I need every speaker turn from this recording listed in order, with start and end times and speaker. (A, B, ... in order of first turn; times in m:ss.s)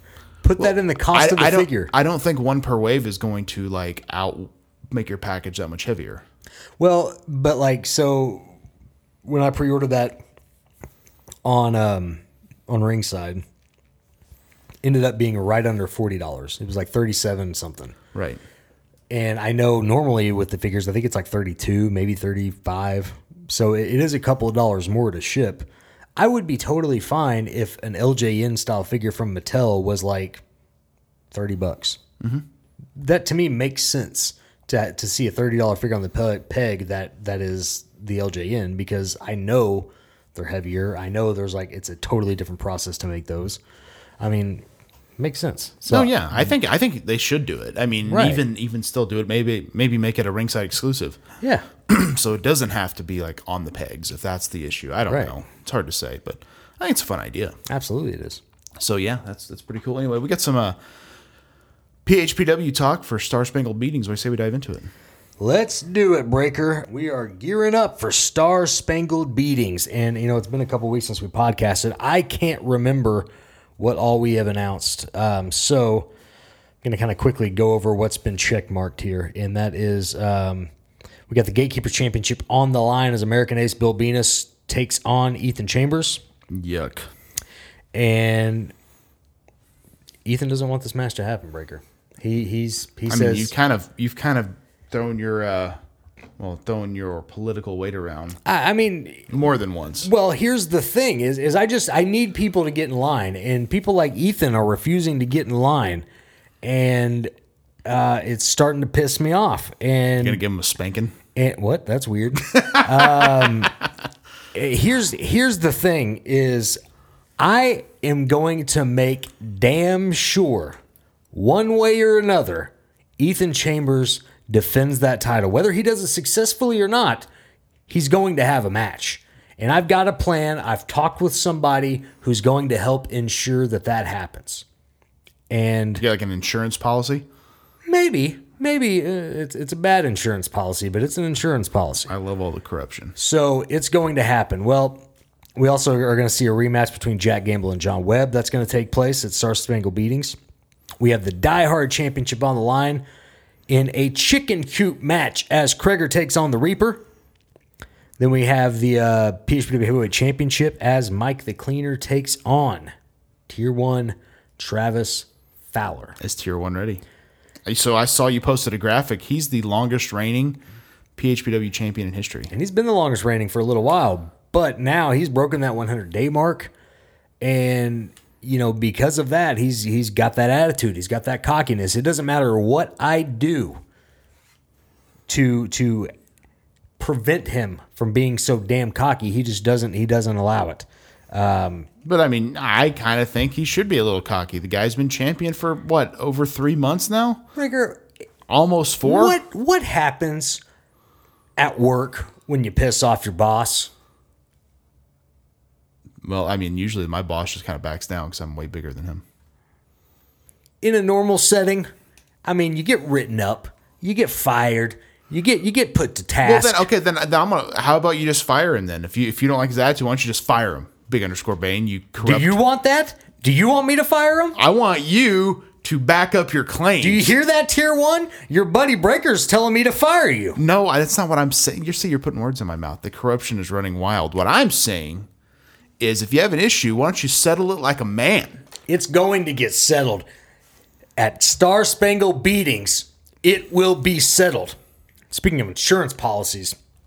0:00.4-0:01.9 A
0:00.6-0:06.2 B
0:06.8-0:08.6 A
0:09.2-0:10.2 A
0:11.4-0:13.4 A
0:14.8-0:18.0 A
0:18.1-0:18.4 B
0:19.1-0:30.4 A
0:31.3-0:32.0 A
0:33.0-0:43.6 A
0:44.2-0:44.6 A
0:45.2-0:46.5 A
0:45.9-0:51.2 B
0:48.1-0:48.4 A
0:51.4-0:51.7 A
0:51.9-0:57.6 B
0:55.1-0:55.3 A
0:57.7-0:58.4 A
0:58.8-1:00.8 B
1:02.0-1:04.9 B
1:05.4-1:13.3 A
1:13.8-1:16.1 A
1:16.8-1:20.7 A
1:21.3-1:26.2 A
1:26.5-1:27.1 B
1:27.9-1:28.7 A
1:30.2-1:33.5 A
1:33.1-1:35.8 B
1:36.4-1:38.4 B
1:38.4-1:39.4 A
1:39.3-1:40.1 B
1:40.0-1:46.0 A
1:46.6-1:47.3 A
1:47.8-1:50.4 A
1:50.2-1:51.2 B
1:51.4-1:53.8 A
1:52.7-1:53.7 B
1:54.5-1:56.8 A
1:57.4-2:00.8 A
2:01.3-2:07.3 A
2:07.9-2:14.6 A
2:15.5-2:16.0 A
2:16.0-2:17.3 B
2:17.9-2:22.1 A
2:22.1-2:23.2 B
2:23.2-2:25.0 A
2:25.6-2:30.4 A
2:31.0-2:33.0 A
2:33.7-2:37.0 A
2:38.2-2:42.9 A
2:43.5-2:46.2 A
2:46.2-2:47.0 B
2:47.7-2:50.6 B
2:51.2-2:52.5 B
2:52.5-2:56.7 A
2:57.4-3:03.8 A
3:05.3-3:06.1 A
3:07.0-3:11.9 A
3:12.0-3:17.4 B
3:17.6-3:18.0 A
3:18.5-3:19.4 B
3:19.0-3:20.6 A
3:21.6-3:23.9 A
3:26.2-3:29.2 B
3:30.8-3:31.9 A
3:32.4-3:36.9 A
3:36.4-3:42.6 B
3:42.2-3:44.6 A
3:44.6-3:47.3 B
3:47.0-3:50.6 A
3:50.6-3:55.3 B
3:56.0-3:58.6 B
3:58.9-4:00.2 A
4:01.2-4:04.8 A
4:05.3-4:06.8 A